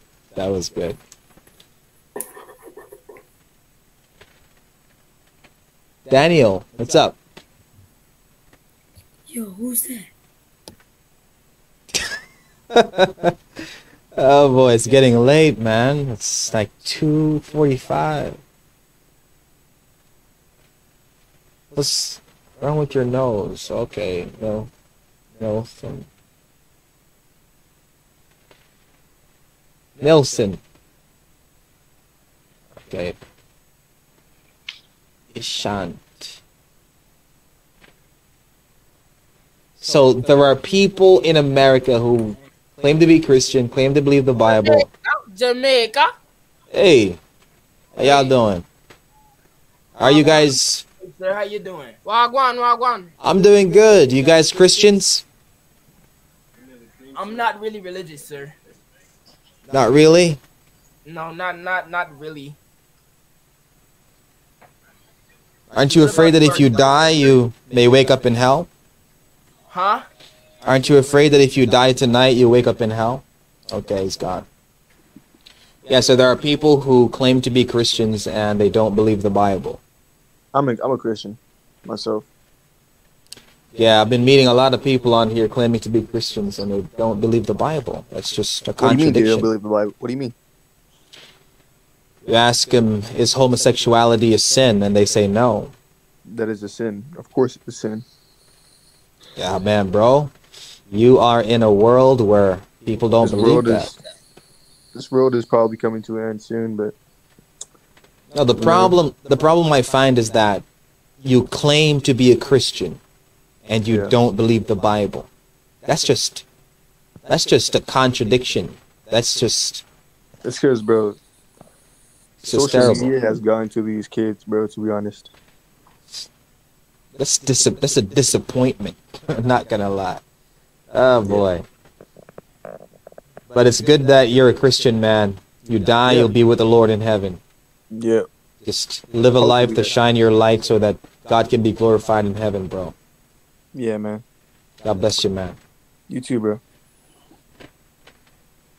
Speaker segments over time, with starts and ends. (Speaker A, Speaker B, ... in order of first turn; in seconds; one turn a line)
Speaker A: 0.3-1.0
Speaker A: 6.1-7.2
Speaker A: 12.7-13.3
Speaker A: 14.1-18.4
Speaker A: 21.7-24.7
Speaker A: 25.4-26.1
Speaker A: 30.0-30.6
Speaker A: 32.9-33.2
Speaker A: 35.3-36.4
Speaker A: 39.8-44.9
Speaker B: 44.4-46.1
Speaker A: 46.7-47.2
Speaker A: 47.9-48.6
Speaker A: 50.0-50.8
Speaker B: 50.0-50.5
Speaker B: 51.0-54.9
Speaker A: 53.2-55.2
Speaker B: 57.1-58.5
Speaker A: 59.7-60.4
Speaker B: 61.0-62.6
Speaker A: 65.7-68.7
Speaker B: 65.8-67.3
Speaker B: 69.7-70.1
Speaker A: 70.6-74.5
Speaker A: 75.8-79.8
Speaker C: 80.5-82.3
Speaker A: 83.8-89.5
Speaker C: 88.8-90.3
Speaker A: 92.2-95.7
Speaker C: 96.2-98.0
Speaker A: 99.3-100.3
Speaker A: 100.9-103.9
Speaker C: 103.2-103.9
Speaker C: 104.9-107.0
Speaker A: 108.3-110.6
Speaker C: 108.6-109.0
Speaker A: 111.2-113.0
Speaker A: 113.7-115.3
Speaker C: 113.9-114.1
Speaker A: 115.8-116.4
Speaker A: 117.3-119.8
Speaker C: 120.4-121.2
Speaker A: 122.4-123.1
Speaker C: 122.5-125.3
Speaker A: 127.2-130.2
Speaker A: 130.9-131.7
Speaker A: 133.5-137.4
Speaker C: 136.1-136.3
Speaker C: 137.9-138.3
Speaker A: 138.6-142.9
Speaker C: 139.4-139.9
Speaker C: 143.7-144.2
Speaker A: 144.8-145.6
Speaker C: 146.1-146.6